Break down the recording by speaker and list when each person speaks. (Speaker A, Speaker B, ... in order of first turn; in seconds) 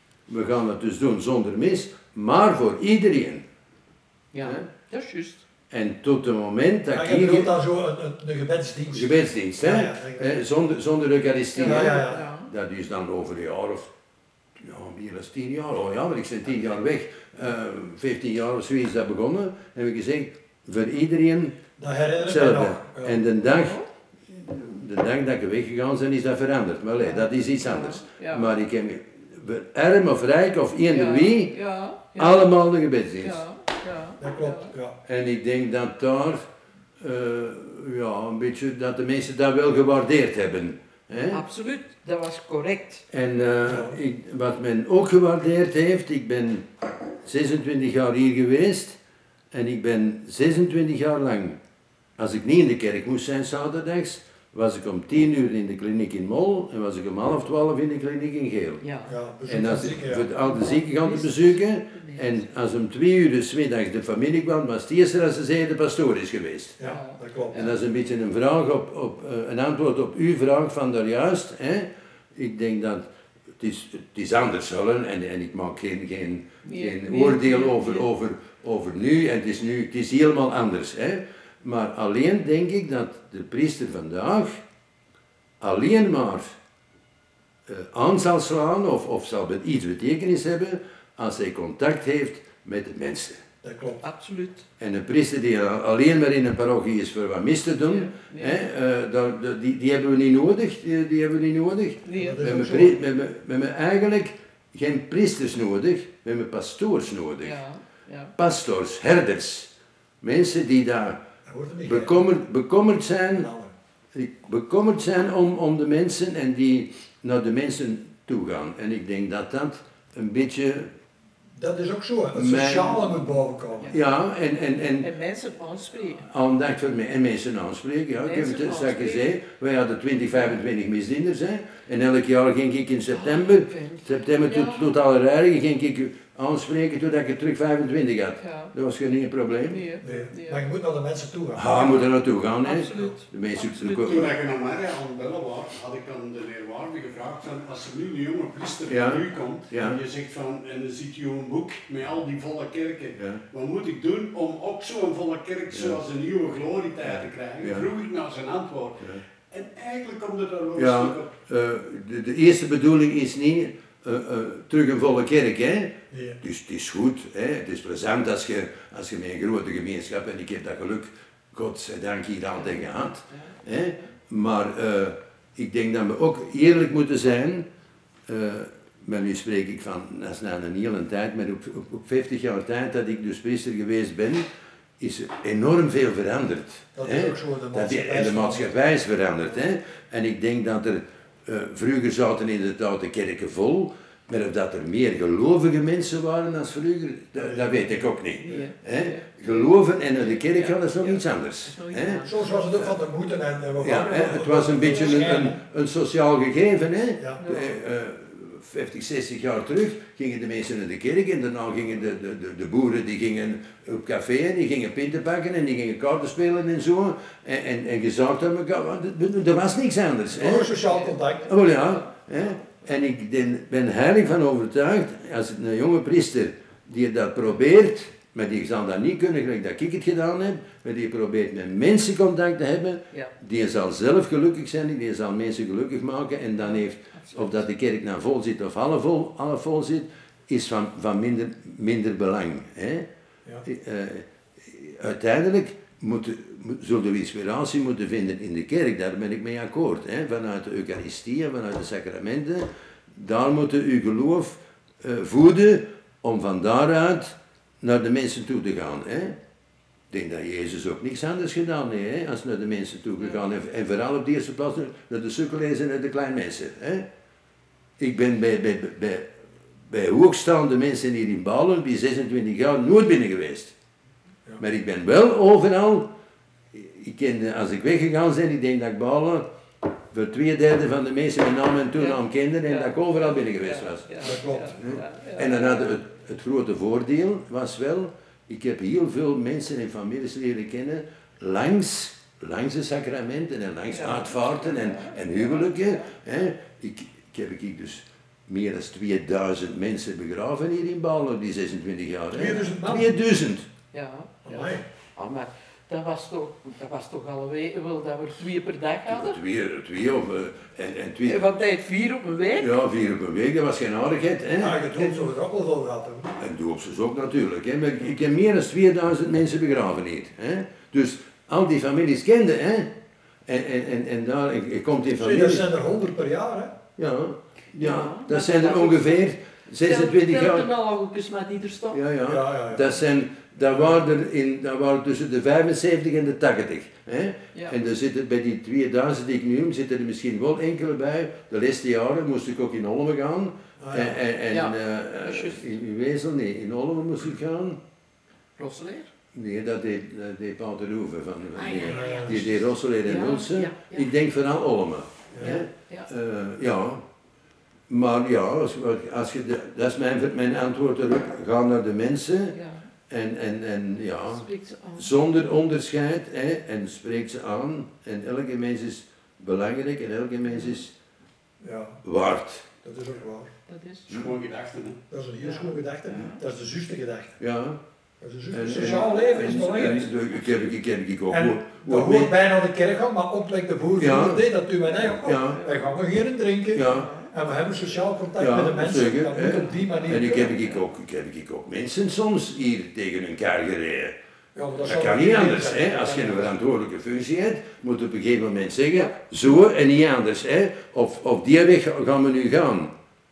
Speaker A: 0.3-3.4, 5.7-7.5, 8.9-13.9, 14.6-21.6, 22.2-31.5, 32.2-33.4, 35.0-36.4, 37.0-41.4, 43.1-46.7, 47.2-49.0, 49.5-51.6, 52.2-58.8, 59.5-66.8, 67.5-73.1, 73.6-84.6, 85.6-86.5, 87.7-93.4, 94.8-107.6, 108.4-109.7, 110.2-111.2, 111.8-113.5, 114.1-120.9, 122.3-123.3, 123.9-125.1, 126.2-139.8, 141.5-144.3, 148.9-150.0, 153.2-153.4, 155.7-156.0, 157.0-157.9, 160.7-177.7, 178.3-184.4, 185.0-202.2, 203.8-220.8, 221.5-243.1, 243.6-259.4, 260.1-267.1, 268.0-269.3, 269.9-273.7, 274.6-276.1, 276.7-279.5, 280.1-284.2, 284.8-303.7, 309.1-311.4, 312.6-315.2, 316.4-322.9, 323.4-325.7, 327.0-330.7, 331.9-347.8, 349.3-357.0, 357.9-362.6, 363.1-370.9, 372.0-372.6, 377.4-377.8, 378.5-382.3, 384.0-384.4, 385.2-385.6, 386.7-387.1, 388.4-394.1, 394.8-402.9
Speaker B: 4.3-5.4, 11.5-12.5, 23.4-23.9, 27.0-28.5, 30.9-32.5, 33.2-34.7, 41.3-43.0, 58.8-59.1, 60.4-62.5, 66.8-67.8, 76.6-78.1, 94.0-94.7, 97.9-98.6, 102.0-102.6, 107.4-108.3, 125.0-126.2, 128.2-129.3, 133.1-134.9, 138.4-138.7, 139.7-140.6, 141.8-142.0, 142.6-144.3, 172.6-173.6, 198.4-202.9, 207.4-207.8, 220.8-222.1, 236.6-237.6, 282.0-285.9, 293.9-296.1, 303.9-309.4, 311.2-312.7, 327.7-329.2, 329.8-332.0, 344.5-345.7, 348.6-349.1, 351.5-352.4, 353.0-354.1, 355.4-356.1, 362.5-362.8, 364.3-365.1, 370.5-370.8, 373.7-374.1, 375.4-376.4, 378.8-380.1, 385.5-385.8, 386.8-387.3, 389.8-390.8
Speaker C: 6.9-10.4, 11.6-12.3, 21.8-23.2, 34.2-35.0, 43.6-44.0, 59.0-60.3, 66.8-67.7, 93.6-94.0, 102.1-103.0, 111.4-112.3, 113.3-113.7, 121.5-124.0, 140.0-142.0, 166.1-166.4, 186.9-188.7, 197.4-198.1, 202.2-205.6, 220.3-221.5, 284.2-284.8, 302.3-303.1, 304.4-304.8, 314.6-316.4, 325.2-326.8, 332.2-332.9, 343.8-344.2, 351.8-352.6, 355.3-355.6, 371.6-372.0, 372.8-373.5, 375.1-377.4, 378.2-380.1, 381.3-390.6, 394.5-396.6
Speaker D: 144.1-161.3, 374.1-375.0